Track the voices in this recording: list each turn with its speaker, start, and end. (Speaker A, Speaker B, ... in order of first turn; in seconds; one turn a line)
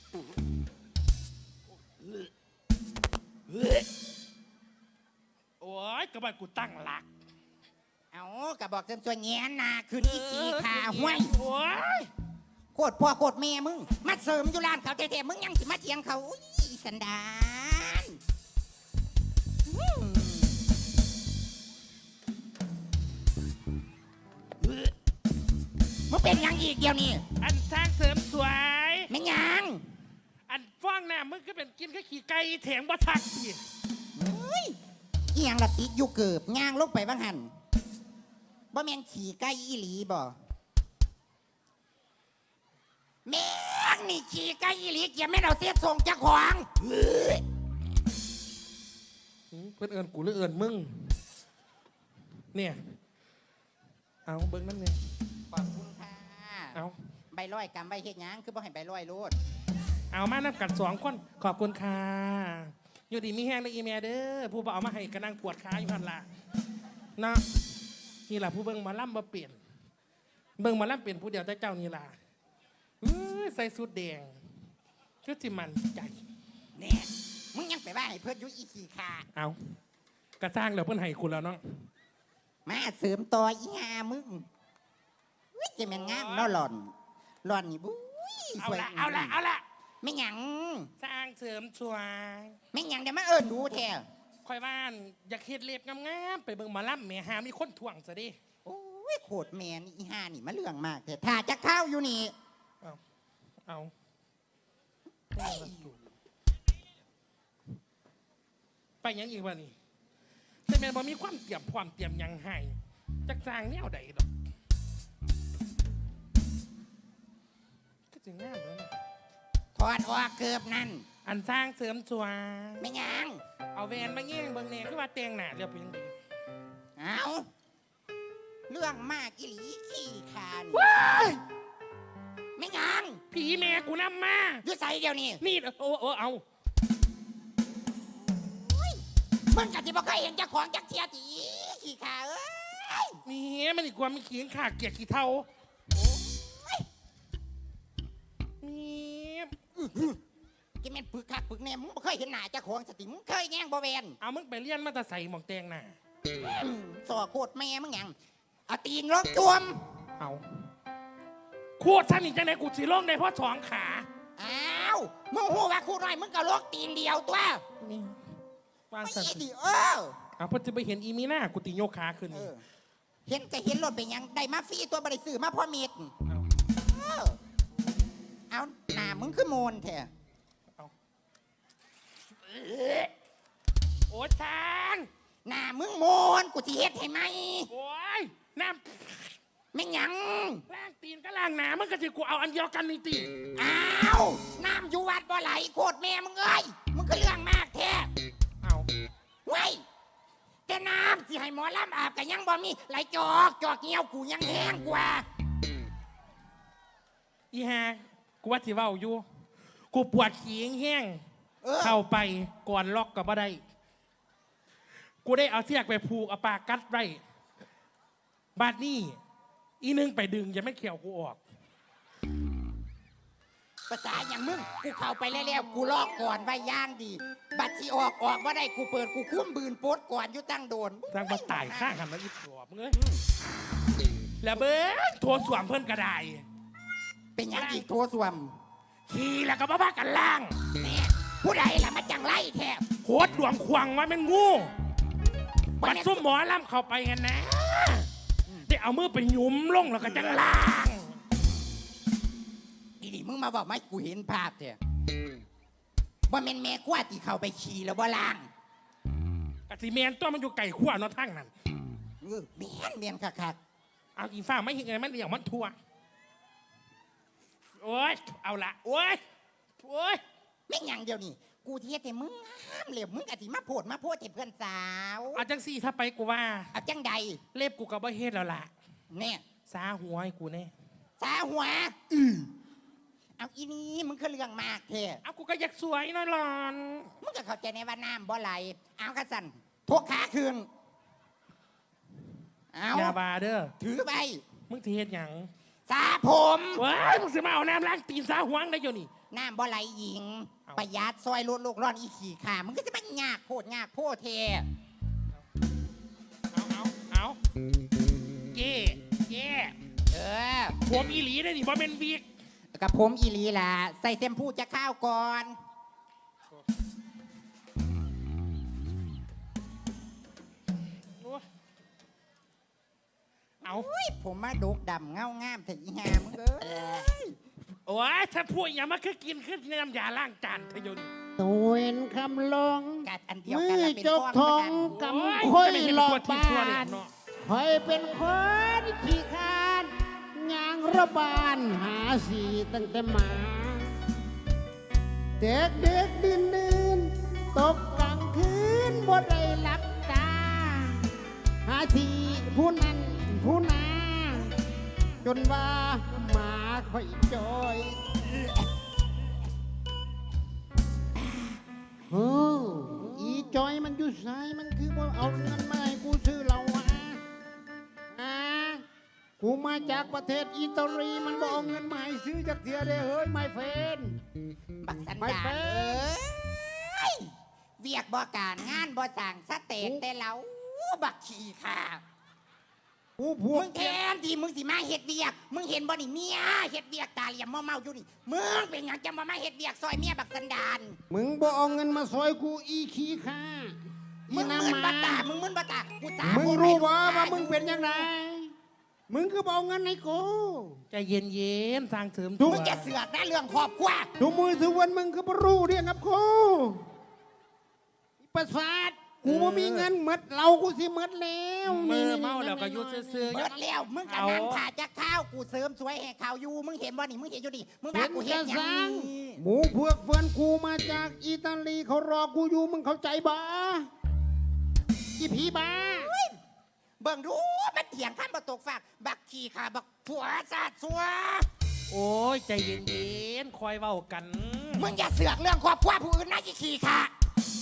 Speaker A: 5.6-7.1
Speaker B: 8.1-11.3
Speaker A: 10.0-12.1
Speaker B: 12.8-18.2
Speaker B: 19.7-20.6
Speaker B: 26.1-27.2
Speaker A: 27.4-29.1
Speaker B: 29.1-29.8
Speaker A: 30.5-33.6
Speaker B: 34.2-34.8
Speaker B: 35.3-37.5
Speaker B: 38.7-40.4
Speaker B: 43.3-46.7
Speaker A: 49.5-51.2
Speaker A: 52.5-52.8
Speaker A: 54.3-55.0
Speaker B: 55.5-56.8
Speaker B: 57.3-59.4
Speaker A: 60.1-66.3
Speaker A: 67.2-67.4
Speaker A: 68.3-69.6
Speaker A: 70.6-72.2
Speaker A: 73.0-74.4
Speaker A: 75.2-76.2
Speaker B: 76.8-79.3
Speaker A: 80.4-81.6
Speaker B: 82.7-84.5
Speaker B: 85.5-86.9
Speaker A: 85.8-86.6
Speaker B: 87.4-89.4
Speaker A: 88.6-89.6
Speaker B: 90.0-90.9
Speaker A: 91.0-92.6
Speaker B: 92.7-94.0
Speaker A: 94.5-98.4
Speaker B: 98.7-102.3
Speaker A: 103.7-103.9
Speaker A: 105.3-106.0
Speaker B: 105.4-105.8
Speaker A: 109.0-109.7
Speaker A: 110.7-114.3
Speaker A: 118.1-118.9
Speaker B: 119.8-121.1
Speaker A: 121.2-122.9
Speaker B: 122.8-123.4
Speaker A: 123.8-126.2
Speaker B: 127.0-127.5
Speaker B: 128.7-131.3
Speaker A: 130.7-131.4
Speaker B: 132.6-133.2
Speaker A: 133.3-134.6
Speaker B: 134.6-135.4
Speaker A: 135.4-136.4
Speaker B: 138.3-139.0
Speaker B: 139.5-143.2
Speaker A: 143.2-145.5
Speaker B: 145.9-146.8
Speaker A: 148.6-149.6
Speaker B: 149.8-150.2
Speaker B: 150.8-154.2
Speaker A: 154.2-155.9
Speaker B: 156.3-158.2
Speaker B: 158.7-159.8
Speaker A: 161.8-164.1
Speaker B: 164.4-167.7
Speaker A: 167.8-168.2
Speaker A: 168.9-169.4
Speaker B: 169.0-170.2
Speaker A: 170.4-172.5
Speaker B: 172.3-172.6
Speaker B: 173.3-176.1
Speaker B: 176.8-177.4
Speaker B: 178.5-180.1
Speaker A: 182.5-183.1
Speaker A: 184.1-185.1
Speaker B: 185.5-187.7
Speaker A: 187.7-189.4
Speaker B: 189.7-190.6
Speaker A: 190.7-193.3
Speaker B: 193.6-198.1
Speaker A: 198.6-198.9
Speaker B: 199.5-199.8
Speaker B: 200.7-205.3
Speaker A: 207.5-209.2
Speaker A: 209.9-211.2
Speaker B: 211.6-212.0
Speaker A: 211.8-213.6
Speaker A: 215.2-217.2
Speaker A: 218.6-219.2
Speaker A: 219.8-221.4
Speaker B: 223.9-231.9
Speaker A: 231.1-233.0
Speaker B: 232.9-233.2
Speaker A: 234.4-236.4
Speaker B: 237.4-238.6
Speaker A: 237.5-237.9
Speaker A: 239.1-240.6
Speaker B: 240.8-242.9
Speaker A: 243.0-244.7
Speaker B: 245.8-246.2
Speaker A: 245.8-248.1
Speaker A: 248.7-251.1
Speaker B: 253.0-254.8
Speaker B: 256.3-258.5
Speaker A: 259.7-261.5
Speaker B: 262.2-263.6
Speaker A: 264.2-265.8
Speaker A: 267.8-269.2
Speaker A: 269.8-270.2
Speaker B: 270.7-275.4
Speaker A: 275.3-276.7
Speaker B: 276.7-277.4
Speaker A: 277.5-278.7
Speaker B: 279.1-279.4
Speaker A: 279.7-280.7
Speaker B: 281.2-282.5
Speaker B: 283.4-285.2
Speaker A: 285.2-287.1
Speaker B: 287.2-290.7
Speaker B: 292.7-293.2
Speaker A: 292.9-293.7
Speaker B: 293.8-294.4
Speaker A: 294.7-295.5
Speaker B: 295.9-296.8
Speaker A: 296.8-299.1
Speaker B: 299.3-304.7
Speaker A: 306.5-307.4
Speaker A: 308.5-309.8
Speaker B: 310.1-310.8
Speaker A: 310.8-312.3
Speaker B: 312.7-315.6
Speaker A: 321.2-321.4
Speaker B: 323.6-327.4
Speaker A: 327.9-331.1
Speaker C: 331.4-344.0
Speaker B: 333.1-334.9
Speaker A: 334.9-337.1
Speaker C: 345.4-351.1
Speaker C: 351.6-354.5
Speaker C: 355.2-358.0
Speaker C: 362.1-367.2
Speaker C: 368.1-368.8
Speaker C: 369.4-374.2
Speaker B: 374.8-382.0
Speaker C: 375.2-376.1
Speaker C: 383.2-384.0
Speaker B: 383.5-391.0
Speaker C: 391.1-393.8
Speaker C: 394.3-395.3
Speaker B: 394.3-398.1
Speaker C: 396.2-398.5
Speaker C: 399.1-400.8
Speaker A: 400.9-402.9
Speaker B: 402.4-404.1
Speaker C: 404.2-406.8
Speaker C: 408.2-413.3
Speaker A: 409.2-409.9
Speaker A: 411.7-414.6
Speaker B: 413.3-419.4
Speaker C: 417.9-423.9
Speaker C: 425.2-426.1
Speaker B: 425.9-426.4
Speaker B: 427.0-431.5
Speaker A: 431.9-434.9
Speaker B: 434.8-437.1